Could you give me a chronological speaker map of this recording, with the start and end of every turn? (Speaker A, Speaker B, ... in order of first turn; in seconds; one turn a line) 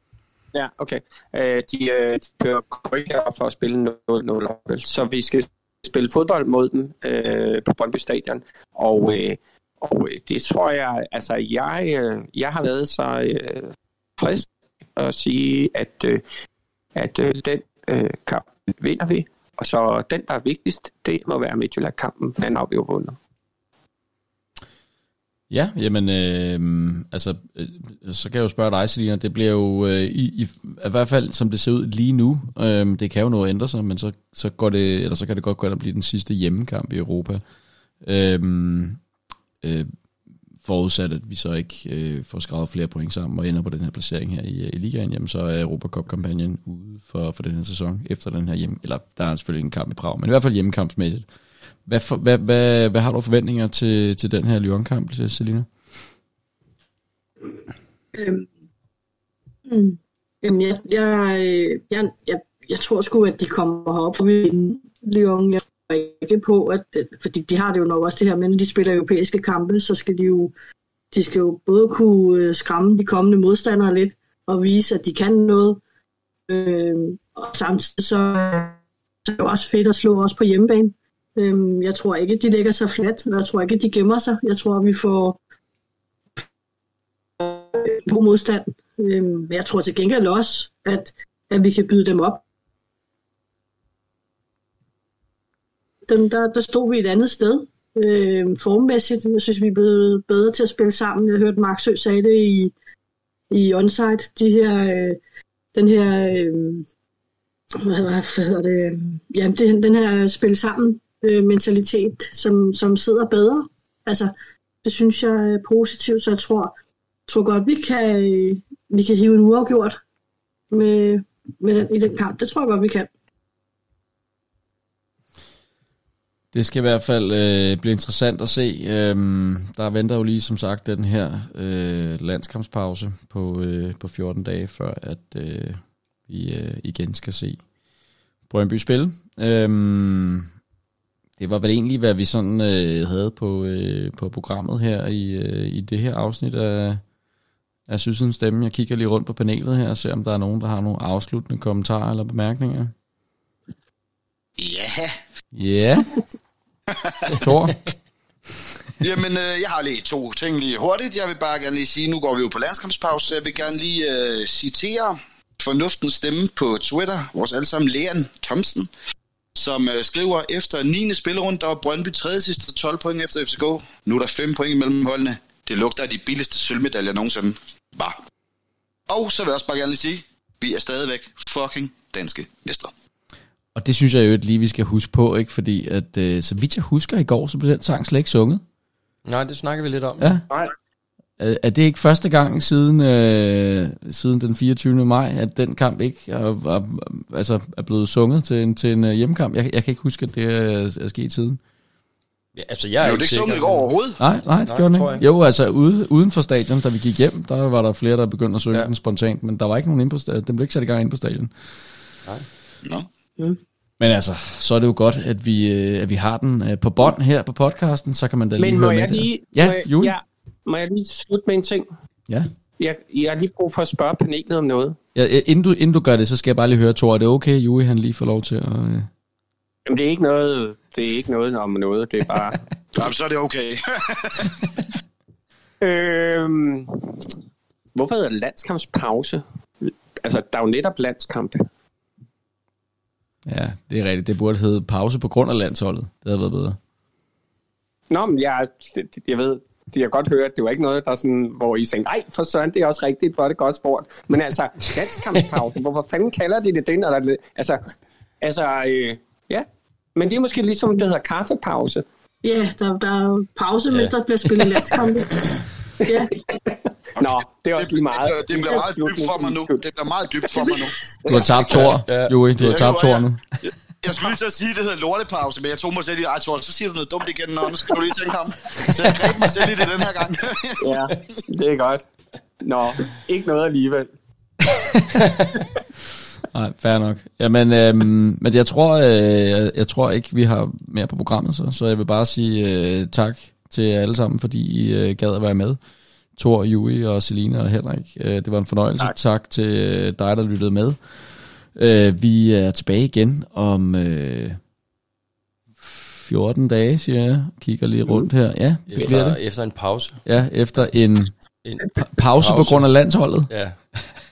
Speaker A: 0.5-16.2
Speaker A: 16.9-23.2
Speaker B: 25.5-37.4
Speaker B: 38.0-39.0
Speaker B: 39.6-39.9
Speaker B: 40.6-51.3
Speaker B: 51.9-55.7
Speaker C: 58.1-58.5
Speaker C: 59.7-70.5
Speaker C: 71.1-75.8
Speaker C: 76.5-85.4
Speaker C: 87.4-92.4
Speaker C: 96.1-102.7
Speaker C: 103.5-105.2
Speaker C: 105.7-106.9
Speaker C: 107.8-116.7
Speaker C: 117.3-120.0
Speaker C: 120.7-123.1
Speaker B: 126.5-137.6
Speaker B: 138.5-140.5
Speaker B: 141.4-147.0
Speaker B: 147.9-152.9
Speaker D: 154.6-155.1
Speaker B: 155.5-156.1
Speaker D: 156.9-157.4
Speaker B: 157.3-157.9
Speaker D: 159.0-168.9
Speaker D: 169.6-178.2
Speaker D: 179.1-182.9
Speaker B: 183.8-188.6
Speaker E: 189.3-190.3
Speaker B: 190.2-190.4
Speaker B: 191.4-201.6
Speaker E: 202.6-203.9
Speaker D: 203.0-204.2
Speaker B: 204.2-211.9
Speaker E: 204.7-205.2
Speaker B: 214.0-220.1
Speaker A: 218.6-221.9
Speaker A: 222.8-225.0
Speaker B: 225.2-229.1
Speaker A: 229.9-232.6
Speaker D: 232.9-234.7
Speaker A: 235.8-237.3
Speaker A: 237.9-241.7
Speaker B: 243.5-246.8
Speaker A: 248.1-257.9
Speaker A: 258.4-262.1
Speaker C: 262.4-266.3
Speaker E: 263.9-264.1
Speaker A: 266.1-269.8
Speaker D: 267.2-272.0
Speaker C: 270.7-271.1
Speaker B: 271.3-273.4
Speaker E: 271.7-272.8
Speaker D: 272.6-281.1
Speaker A: 280.8-282.0
Speaker A: 282.6-284.1
Speaker B: 286.5-295.8
Speaker B: 296.4-301.2
Speaker B: 301.7-304.6
Speaker B: 305.8-309.4
Speaker E: 308.9-310.2
Speaker B: 310.2-311.3
Speaker E: 311.6-312.9
Speaker B: 312.0-314.1
Speaker E: 313.5-313.8